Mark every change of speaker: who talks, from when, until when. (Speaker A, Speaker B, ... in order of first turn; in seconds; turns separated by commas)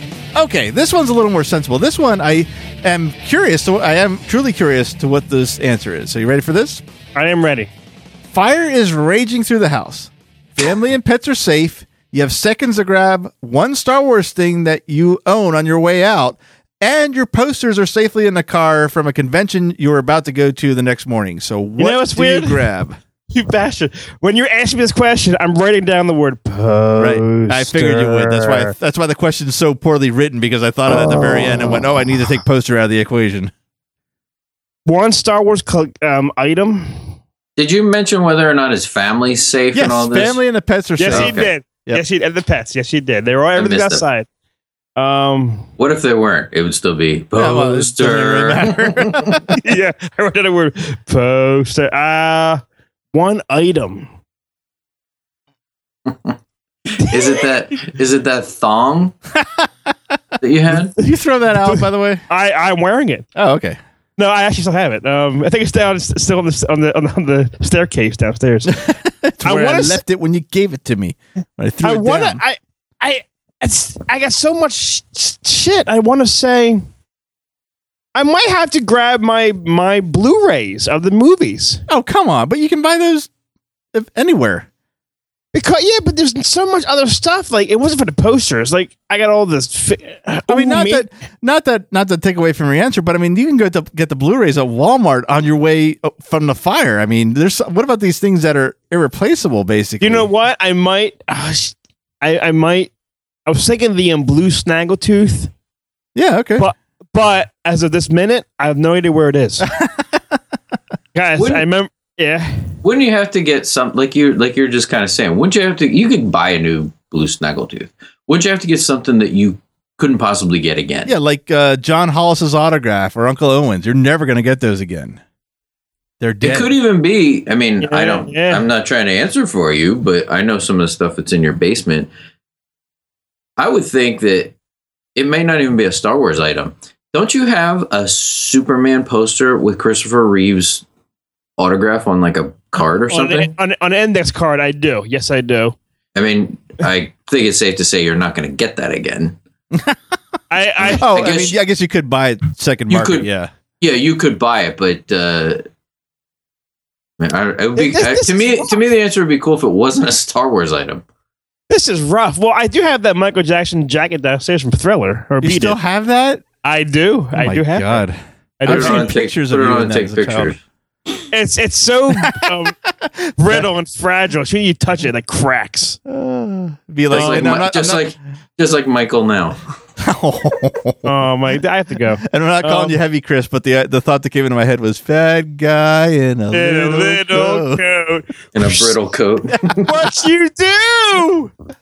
Speaker A: 0.3-6.8, Speaker B: 7.1-7.7, Speaker A: 8.3-23.0, Speaker B: 21.8-22.7, Speaker B: 23.3-28.7, Speaker A: 27.0-33.5, Speaker B: 31.0-31.6, Speaker B: 34.8-37.0, Speaker C: 37.6-40.4, Speaker A: 39.7-42.0, Speaker B: 41.0-44.3, Speaker C: 41.0-41.5, Speaker C: 43.5-44.0, Speaker B: 45.0-45.7, Speaker C: 45.8-49.4, Speaker A: 47.3-49.5, Speaker B: 49.5-52.6, Speaker B: 53.1-54.1, Speaker C: 57.0-59.1, Speaker A: 59.3-59.7, Speaker C: 60.4-60.9, Speaker A: 60.7-62.2, Speaker B: 61.5-63.2, Speaker A: 63.3-63.8, Speaker B: 64.2-68.8, Speaker A: 68.7-72.4, Speaker B: 69.4-70.0, Speaker B: 71.8-76.8, Speaker B: 78.1-81.8, Speaker A: 81.9-83.3, Speaker A: 83.9-84.7, Speaker B: 85.5-91.1, Speaker A: 90.5-100.3, Speaker B: 100.0-102.9, Speaker B: 103.5-105.5, Speaker A: 106.1-106.7, Speaker B: 106.6-109.7, Speaker A: 109.7-110.2, Speaker B: 111.1-112.7, Speaker C: 111.3-111.6, Speaker C: 112.8-121.1, Speaker A: 121.0-125.2, Speaker A: 126.2-126.7, Speaker C: 126.4-132.1, Speaker B: 127.8-128.7, Speaker C: 133.6-134.5, Speaker C: 135.1-140.8, Speaker C: 141.6-143.5, Speaker B: 142.8-145.8, Speaker C: 146.1-149.4, Speaker B: 150.5-151.3, Speaker C: 150.8-151.6, Speaker A: 150.9-153.5, Speaker C: 152.9-153.3, Speaker C: 153.8-155.6, Speaker C: 157.2-161.0, Speaker B: 157.8-158.8, Speaker B: 161.7-165.8, Speaker A: 165.4-166.4, Speaker B: 166.6-168.0, Speaker A: 167.3-170.6, Speaker B: 168.6-169.2, Speaker C: 168.6-170.6, Speaker B: 171.3-172.7, Speaker A: 172.1-173.6, Speaker B: 173.4-176.0, Speaker A: 176.1-178.1, Speaker C: 177.1-179.6, Speaker B: 177.1-177.6, Speaker A: 180.0-181.1, Speaker B: 181.0-183.0, Speaker A: 182.2-187.8, Speaker B: 186.5-188.9, Speaker C: 188.5-189.9, Speaker A: 189.5-190.1, Speaker B: 189.8-191.5